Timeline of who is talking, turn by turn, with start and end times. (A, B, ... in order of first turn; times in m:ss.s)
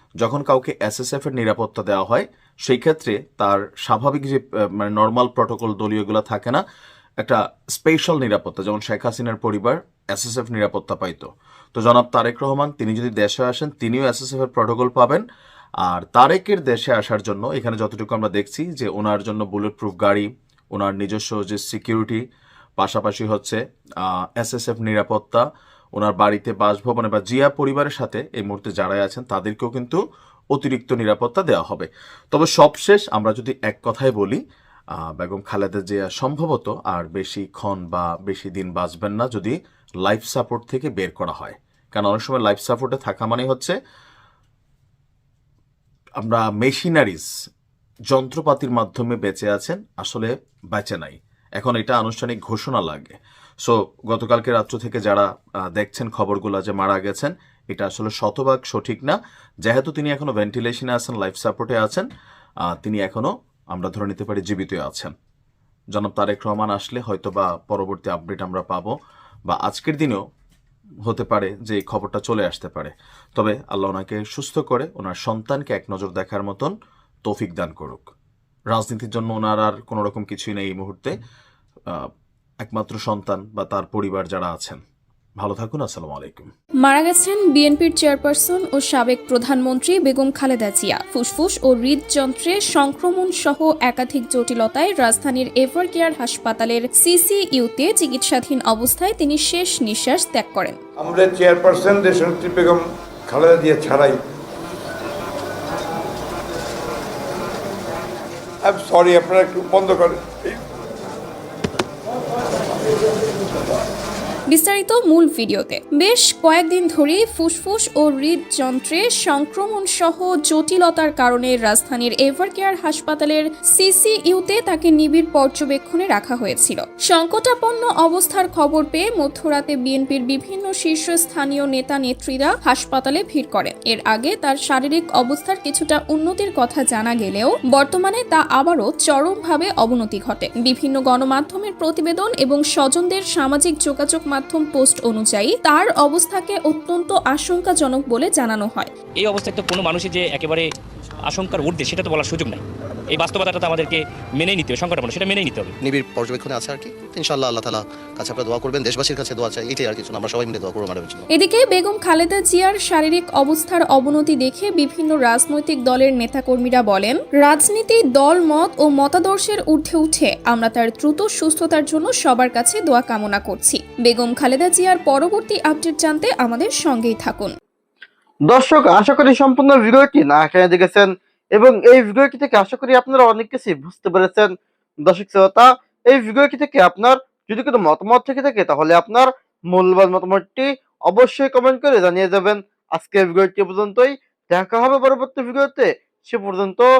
0:00.2-0:06.6 A
0:07.2-0:15.2 A
0:15.8-0:22.2 A
0:22.8-0:25.4 A
0:26.0-0:30.0 A
0:30.5-0:34.4 A
0:35.0-0:43.8 A
0:46.2-0:47.3 A
0:48.1-1:02.1 A
1:02.6-1:05.1 A
1:05.9-1:08.9 A
1:09.5-1:10.2 A
1:11.0-1:16.7 A
1:17.2-1:18.1 A
1:18.7-1:21.1 A
1:22.6-1:24.8 A
1:25.4-1:26.5 A
1:26.8-1:40.8 B
1:41.0-1:44.1 C
1:48.6-1:50.5 C
1:54.5-2:28.9 B
2:29.2-2:30.7 D
2:31.3-2:35.7 D
2:35.8-2:41.2 E
2:41.3-2:57.5 B
2:58.5-3:04.5 F
3:05.1-3:16.9 F